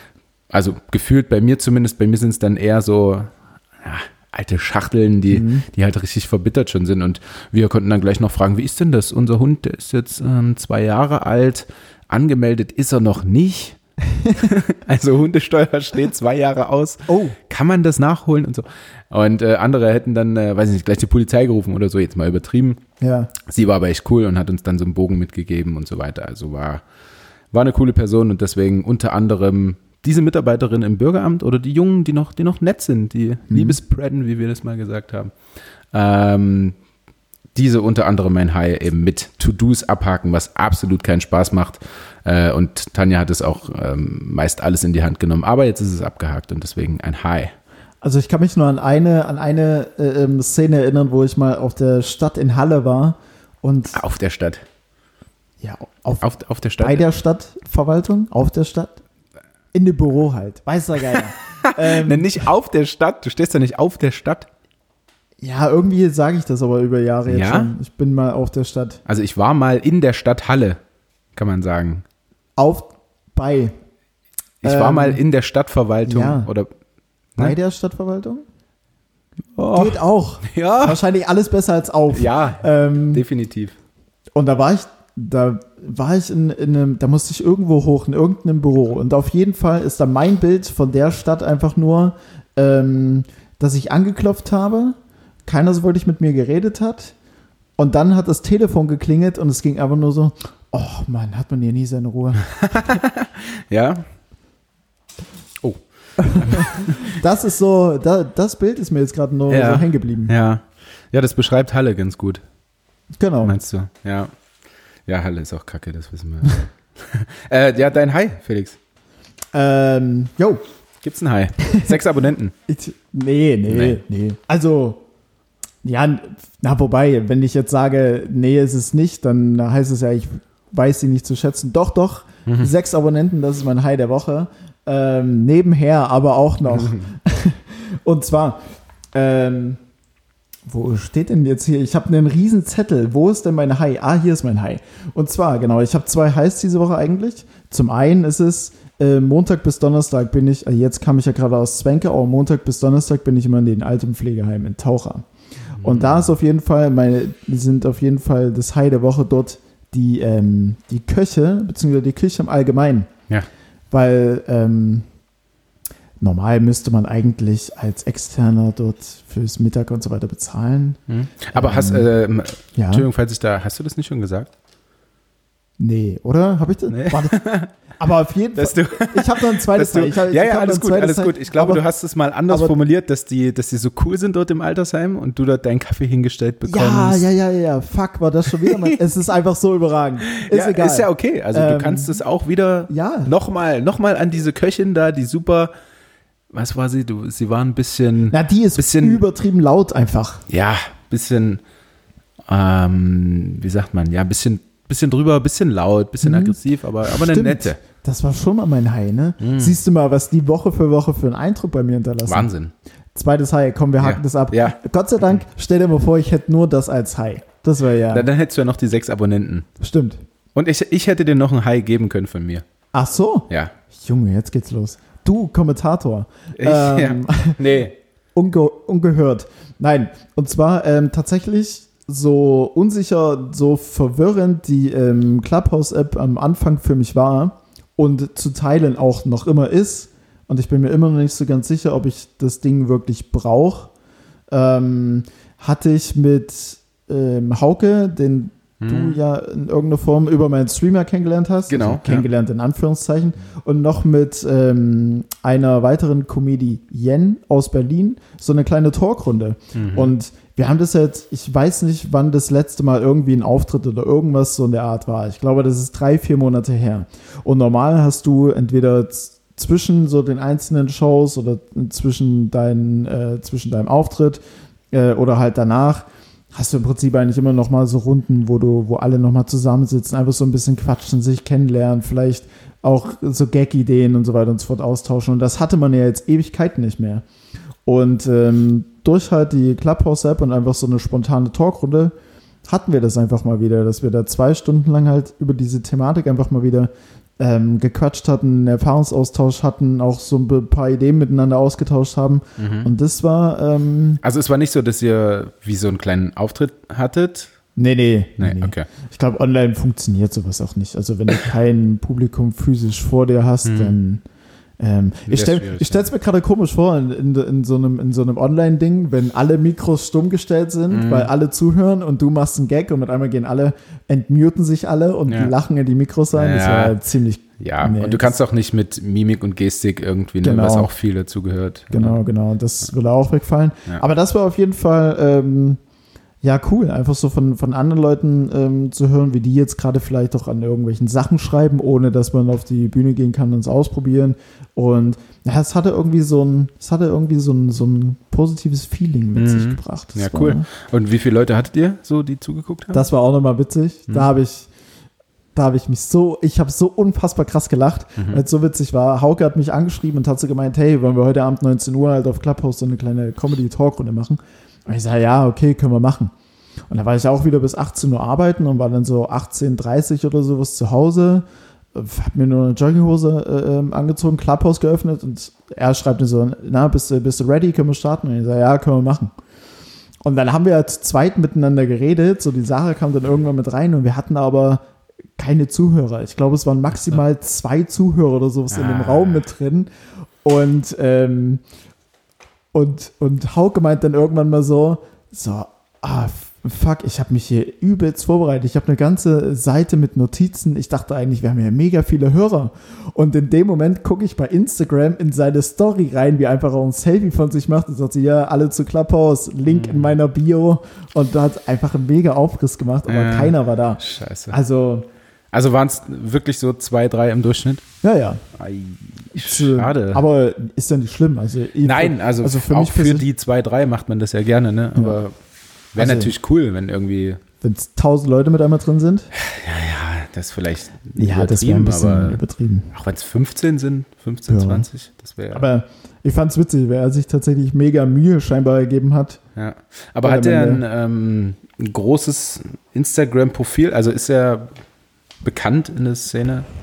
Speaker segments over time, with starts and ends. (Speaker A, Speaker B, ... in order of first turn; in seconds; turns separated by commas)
Speaker A: 0.5-13.8, Speaker B: 5.3-5.7, Speaker B: 14.1-14.5, Speaker A: 14.3-22.8, Speaker B: 17.1-17.4, Speaker B: 23.0-23.3, Speaker A: 23.4-26.8, Speaker A: 27.5-35.3, Speaker B: 33.5-33.8, Speaker A: 35.9-36.8, Speaker A: 37.5-47.5, Speaker B: 48.0-54.0, Speaker A: 53.9-54.6, Speaker B: 55.6-56.2, Speaker A: 56.2-57.0, Speaker B: 56.8-59.0, Speaker B: 59.7-62.5, Speaker A: 61.1-64.5, Speaker B: 65.4-69.0, Speaker A: 67.3-67.7, Speaker A: 69.1-70.8, Speaker A: 71.3-72.0, Speaker B: 72.6-73.7, Speaker A: 74.6-76.7, Speaker B: 74.6-75.2, Speaker B: 76.1-76.5, Speaker B: 77.4-78.5, Speaker A: 79.6-81.0, Speaker B: 79.7-83.2, Speaker A: 82.1-83.8, Speaker B: 84.3-97.1, Speaker B: 97.8-102.5, Speaker A: 102.4-104.1, Speaker A: 105.6-107.1, Speaker B: 106.2-110.3, Speaker A: 109.5-112.4, Speaker B: 113.2-113.6, Speaker A: 113.4-114.3, Speaker A: 115.1-118.8, Speaker B: 119.5-120.6, Speaker A: 121.0-122.5, Speaker B: 121.7-122.0, Speaker B: 122.7-125.0, Speaker A: 123.7-124.0, Speaker B: 125.8-138.6, Speaker A: 136.7-137.0, Speaker B: 139.1-139.8, Speaker B: 140.7-155.3, Speaker B: 155.8-163.1, Speaker A: 155.8-156.2, Speaker B: 163.9-165.1, Speaker B: 166.2-171.0, Speaker A: 171.1-174.5, Speaker B: 171.5-172.1, Speaker B: 172.8-173.1, Speaker B: 175.8-181.8, Speaker A: 176.9-177.7, Speaker A: 178.6-187.3, Speaker B: 182.5-182.7, Speaker B: 186.7-192.2, Speaker A: 188.6-189.0, Speaker A: 190.3-195.7, Speaker B: 192.9-193.3, Speaker A: 196.5-199.2, Speaker B: 198.3-200.4, Speaker A: 200.5-201.6, Speaker A: 202.5-207.8, Speaker B: 206.2-212.5, Speaker A: 209.4-209.8, Speaker A: 212.3-212.7, Speaker B: 213.2-218.3, Speaker A: 214.0-214.8, Speaker A: 218.1-219.7, Speaker B: 219.8-220.2, Speaker A: 220.6-222.6, Speaker B: 222.9-243.9, Speaker A: 226.6-227.9, Speaker B: 244.5-274.4, Speaker A: 248.8-249.2, Speaker A: 251.7-252.3, Speaker A: 259.8-260.1, Speaker B: 274.9-287.2, Speaker B: 287.9-292.1, Speaker B: 292.7-304.2, Speaker A: 302.6-302.9, Speaker A: 304.2-307.5, Speaker B: 307.8-314.2, Speaker A: 308.4-308.9, Speaker A: 313.6-313.9, Speaker B: 314.8-328.3, Speaker A: 315.3-316.1, Speaker A: 320.9-321.3, Speaker A: 325.3-325.5, Speaker A: 326.3-327.0, Speaker A: 327.6-332.2, Speaker B: 330.4-330.9, Speaker B: 331.9-335.8, Speaker B: 336.4-350.7, Speaker A: 349.4-353.1, Speaker B: 352.9-354.7, Speaker B: 355.6-366.3, Speaker A: 358.2-358.4, Speaker B: 366.9-379.3, Speaker B: 380.2-384.8, Speaker B: 385.4-389.9, Speaker A: 388.7-389.5, Speaker B: 390.4-391.6, Speaker B: 392.7-415.1, Speaker A: 409.7-410.2, Speaker A: 413.1-414.6, Speaker A: 415.5-417.8, Speaker B: 418.0-418.4, Speaker A: 418.5-420.2, Speaker B: 419.3-423.3, Speaker A: 421.8-425.3, Speaker A: 425.9-427.4, Speaker B: 426.0-426.3, Speaker B: 427.6-429.3, Speaker A: 429.4-432.4, Speaker B: 431.2-432.9, Speaker A: 432.9-435.6, Speaker B: 434.5-434.9, Speaker B: 435.5-439.4, Speaker A: 439.6-444.7, Speaker B: 440.2-440.8, Speaker A: 445.4-446.7